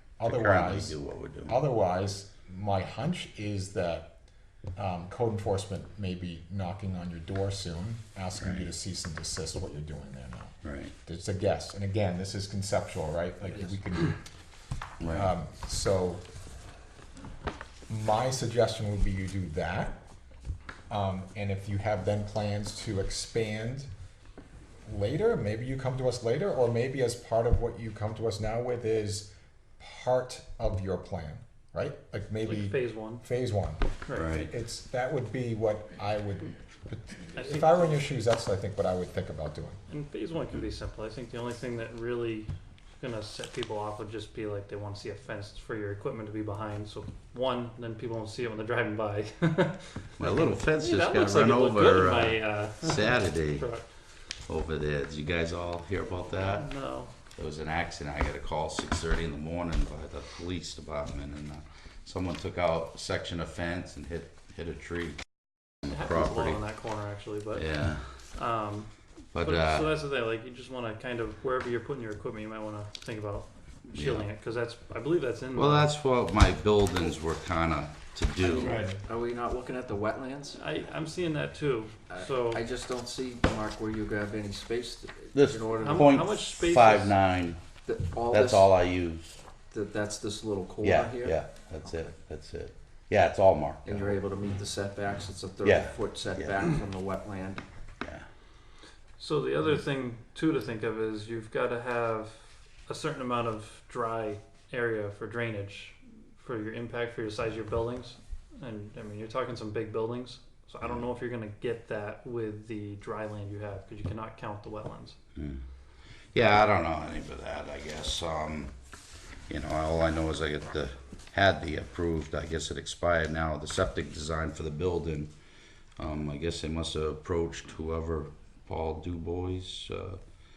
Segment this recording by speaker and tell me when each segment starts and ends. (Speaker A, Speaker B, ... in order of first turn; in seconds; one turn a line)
Speaker A: 0.2-4.1
Speaker B: 0.2-1.6
Speaker A: 4.8-14.2
Speaker B: 8.4-8.7
Speaker B: 10.6-10.9
Speaker B: 15.0-15.3
Speaker A: 15.1-16.2
Speaker A: 17.9-20.0
Speaker A: 20.9-23.9
Speaker A: 24.8-39.8
Speaker C: 32.4-33.2
Speaker C: 34.0-34.3
Speaker B: 34.1-34.5
Speaker C: 37.4-38.0
Speaker C: 39.9-53.9
Speaker B: 50.2-53.7
Speaker B: 54.5-56.7
Speaker C: 56.2-57.1
Speaker B: 57.4-65.2
Speaker B: 65.8-66.6
Speaker C: 65.8-67.7
Speaker B: 67.6-68.1
Speaker C: 68.3-75.9
Speaker B: 69.3-69.9
Speaker B: 73.9-74.2
Speaker B: 75.6-78.8
Speaker D: 78.4-80.6
Speaker A: 78.6-79.0
Speaker C: 80.5-82.6
Speaker D: 82.1-86.2
Speaker B: 85.3-87.6
Speaker C: 85.8-87.2
Speaker D: 87.8-88.7
Speaker B: 88.3-89.4
Speaker D: 89.7-91.4
Speaker B: 90.8-94.1
Speaker D: 93.8-97.6
Speaker B: 95.6-96.7
Speaker C: 99.2-115.2
Speaker B: 115.4-115.6
Speaker B: 116.3-118.7
Speaker B: 119.5-125.3
Speaker B: 126.0-130.2